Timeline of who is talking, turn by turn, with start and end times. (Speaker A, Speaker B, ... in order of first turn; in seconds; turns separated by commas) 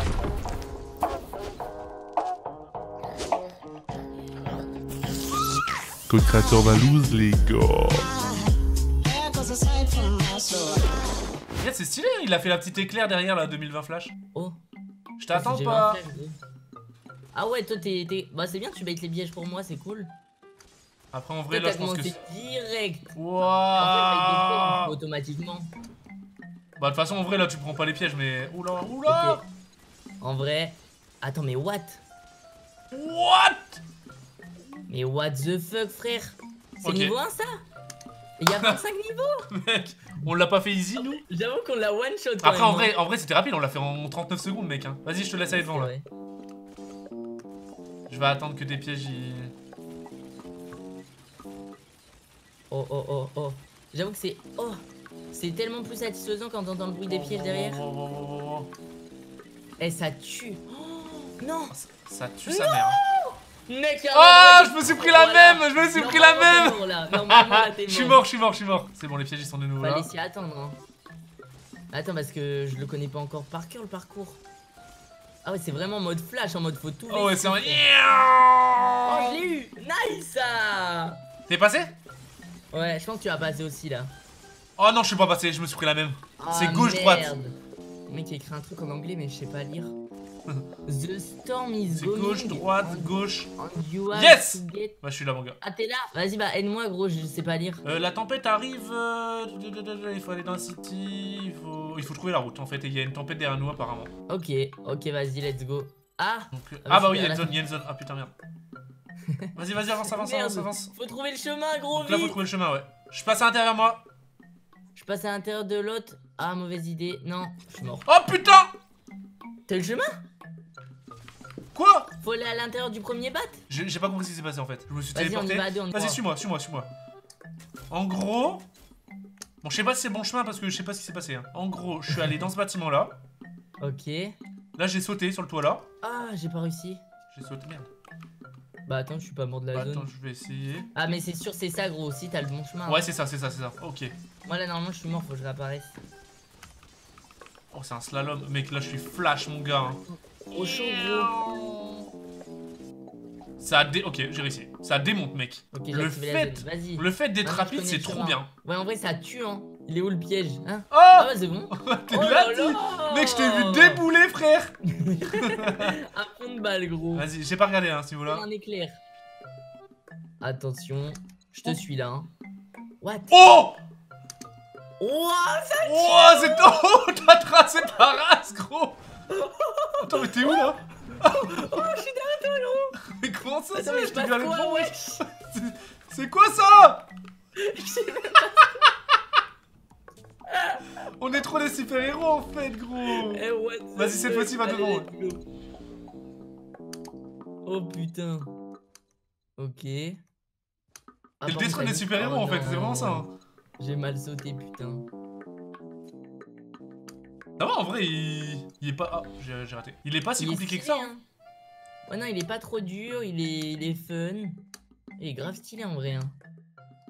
Speaker A: 6.1-8.3, Speaker A: 9.1-10.9, Speaker B: 11.6-14.1, Speaker B: 15.2-16.0, Speaker C: 15.3-16.4, Speaker C: 17.3-20.1, Speaker B: 21.1-22.2, Speaker C: 21.5-23.2, Speaker B: 23.1-24.9, Speaker C: 23.8-25.7, Speaker B: 26.8-29.4, Speaker C: 29.1-29.4, Speaker C: 30.2-32.0, Speaker B: 32.9-33.8, Speaker C: 34.9-37.6, Speaker B: 36.8-37.1, Speaker C: 38.4-39.5, Speaker B: 38.5-38.8, Speaker B: 39.5-41.2, Speaker C: 41.0-42.9, Speaker B: 42.4-45.9, Speaker C: 45.5-46.0, Speaker B: 48.1-49.5, Speaker C: 52.7-54.8, Speaker C: 55.3-57.8, Speaker B: 57.1-58.7, Speaker C: 59.8-61.7, Speaker B: 61.7-63.0, Speaker C: 62.5-68.2, Speaker B: 64.1-70.1, Speaker C: 69.8-70.8, Speaker C: 71.9-74.4, Speaker C: 75.4-77.8, Speaker B: 77.1-79.4, Speaker C: 79.0-81.2, Speaker B: 81.5-82.0, Speaker C: 82.7-84.1, Speaker B: 84.8-87.3, Speaker C: 86.4-87.5, Speaker C: 88.1-89.9, Speaker C: 90.8-95.0, Speaker B: 91.9-93.5, Speaker B: 94.1-95.6, Speaker C: 95.6-97.8, Speaker B: 97.8-104.1, Speaker C: 104.3-107.5, Speaker B: 106.5-108.3, Speaker B: 109.5-110.9, Speaker C: 110.0-112.4, Speaker B: 111.9-114.0, Speaker C: 114.9-118.1, Speaker B: 118.0-118.7, Speaker C: 119.7-120.0, Speaker B: 121.7-122.1, Speaker C: 122.2-123.6, Speaker B: 123.7-126.9, Speaker C: 125.1-126.2, Speaker B: 127.9-128.6, Speaker B: 129.6-133.2, Speaker C: 133.8-134.3, Speaker B: 134.8-135.8, Speaker C: 136.0-137.0, Speaker B: 137.3-137.9, Speaker C: 138.9-140.1, Speaker B: 139.7-140.9, Speaker C: 140.9-143.1, Speaker B: 142.9-144.1, Speaker C: 144.4-146.0, Speaker B: 147.7-152.0, Speaker C: 150.0-151.3, Speaker B: 153.6-158.5, Speaker C: 155.7-164.0, Speaker B: 160.9-164.7, Speaker C: 164.9-167.2, Speaker B: 165.3-165.9, Speaker B: 167.1-168.4, Speaker C: 168.3-169.0, Speaker C: 170.4-172.3, Speaker C: 173.0-173.5, Speaker B: 173.3-173.8, Speaker C: 175.0-177.0, Speaker B: 175.8-179.0, Speaker C: 179.3-182.9, Speaker B: 180.0-181.8, Speaker B: 183.0-187.1, Speaker C: 183.7-185.2, Speaker C: 187.6-188.9, Speaker B: 188.6-188.8, Speaker C: 190.5-190.8, Speaker B: 191.2-193.4, Speaker C: 193.0-195.4, Speaker B: 193.9-195.1, Speaker C: 197.6-198.5, Speaker C: 199.6-200.2, Speaker C: 201.4-203.2, Speaker B: 201.4-203.3, Speaker C: 203.8-205.1, Speaker B: 207.6-211.1, Speaker C: 210.4-211.2, Speaker C: 212.1-214.6, Speaker C: 215.2-216.3